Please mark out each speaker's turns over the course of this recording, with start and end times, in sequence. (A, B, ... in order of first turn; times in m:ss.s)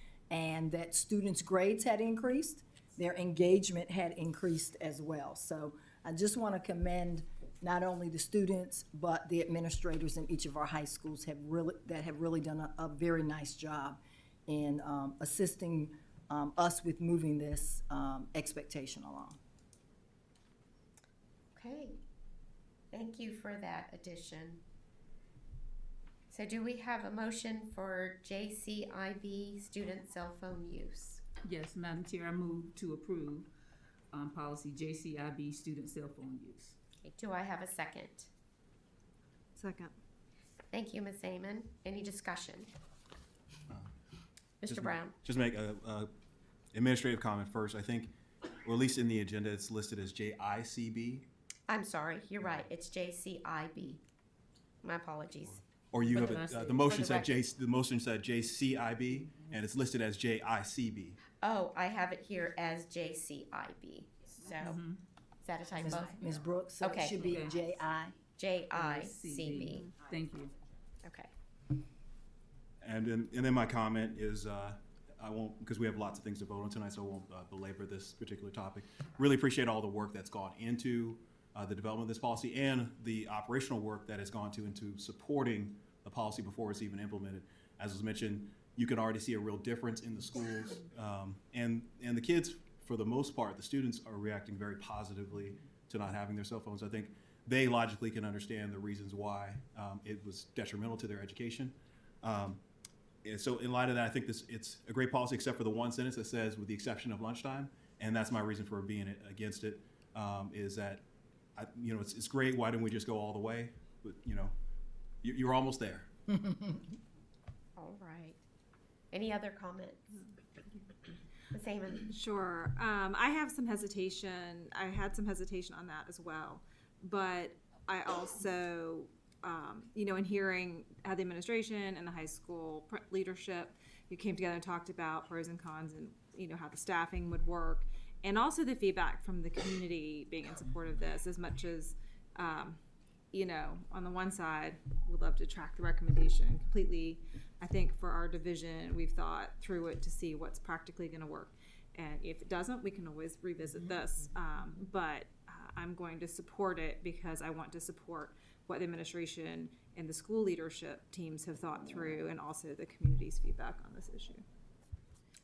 0:00.3-0:19.4 A
0:21.5-0:22.0 B
0:22.9-0:24.6 B
0:26.3-0:31.2 B
0:31.4-0:33.5 C
0:34.1-0:36.8 C
0:37.0-0:38.3 B
0:39.6-0:39.9 D
0:40.7-0:42.7 B
0:44.6-0:45.1 B
0:44.7-0:46.1 E
0:46.7-0:48.1 E
0:48.6-0:51.2 E
0:51.7-0:54.0 B
0:54.8-0:55.6 B
0:55.9-1:01.2 E
0:56.1-0:57.3 B
1:01.4-1:04.8 B
1:04.6-1:05.0 C
1:05.4-1:06.1 B
1:05.8-1:08.1 A
1:06.8-1:07.4 B
1:07.2-1:07.6 C
1:08.4-1:09.9 B
1:08.7-1:10.5 C
1:11.0-1:11.3 B
1:12.8-1:42.6 E
1:43.2-1:51.0 E
1:51.6-1:54.5 E
1:55.2-1:56.1 E
1:57.8-1:58.4 B
1:59.1-2:00.2 B
2:01.5-2:02.1 B
2:02.1-2:22.8 D
2:23.3-2:44.4 D